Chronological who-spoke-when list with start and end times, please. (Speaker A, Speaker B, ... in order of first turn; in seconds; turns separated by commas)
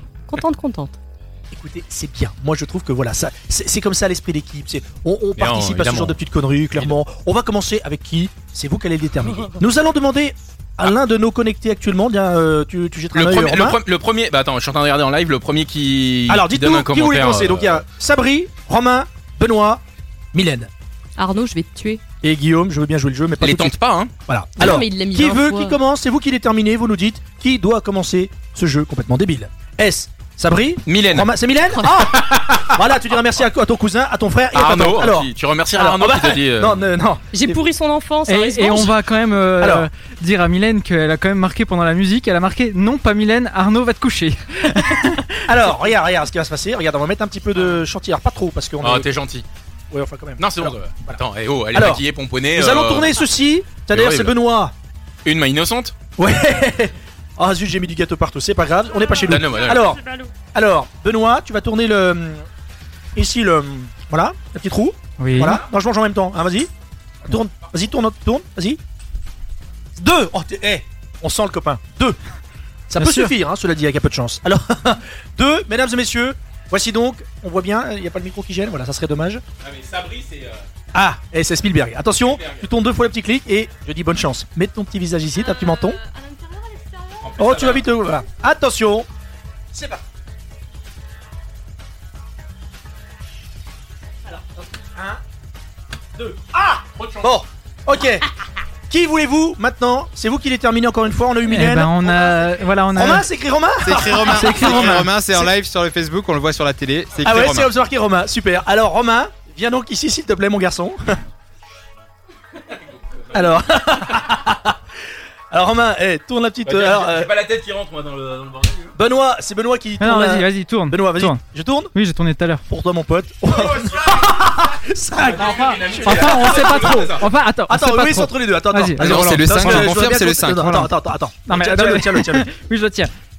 Speaker A: 0.3-0.9, Speaker B: 1.5-13.8, Speaker C: 5.4-6.2, Speaker C: 13.1-17.8, Speaker B: 16.3-19.8, Speaker B: 20.3-20.7, Speaker A: 21.2-22.0, Speaker B: 22.2-37.6, Speaker C: 23.4-24.1, Speaker A: 24.6-25.8, Speaker C: 30.9-32.8, Speaker C: 34.5-36.9, Speaker A: 37.3-39.0, Speaker D: 38.3-45.4, Speaker B: 39.6-39.9, Speaker B: 45.5-49.1, Speaker C: 48.8-49.4, Speaker B: 49.9-54.7, Speaker C: 50.4-53.2, Speaker C: 53.9-54.4, Speaker C: 55.2-55.9, Speaker B: 56.2-60.0, Speaker C: 59.2-59.9, Speaker A: 59.8-60.3, Speaker B: 60.5-62.4, Speaker B: 63.1-66.7, Speaker D: 65.2-65.6, Speaker B: 67.3-68.8, Speaker B: 70.0-72.2, Speaker B: 72.9-79.4, Speaker D: 73.0-73.3, Speaker C: 79.6-80.7, Speaker B: 80.9-86.0, Speaker C: 82.2-82.7, Speaker A: 85.3-87.4, Speaker C: 87.2-87.9, Speaker B: 87.4-89.1, Speaker B: 89.7-90.0, Speaker B: 94.3-95.2, Speaker B: 96.2-98.3, Speaker C: 96.9-97.3, Speaker B: 98.9-102.3, Speaker D: 101.5-103.3, Speaker B: 102.9-105.5, Speaker E: 103.8-107.7, Speaker D: 104.2-105.1, Speaker B: 107.2-111.2, Speaker C: 112.7-114.3, Speaker B: 113.3-114.8, Speaker B: 115.5-117.3, Speaker C: 116.6-119.0, Speaker B: 119.0-121.9, Speaker D: 120.0-121.4, Speaker D: 121.9-122.6, Speaker B: 122.7-127.2, Speaker C: 123.5-124.3, Speaker C: 125.2-127.3, Speaker D: 125.3-130.0, Speaker B: 127.7-132.5, Speaker E: 129.0-130.8, Speaker C: 129.0-129.6, Speaker D: 130.6-130.9, Speaker D: 131.5-133.1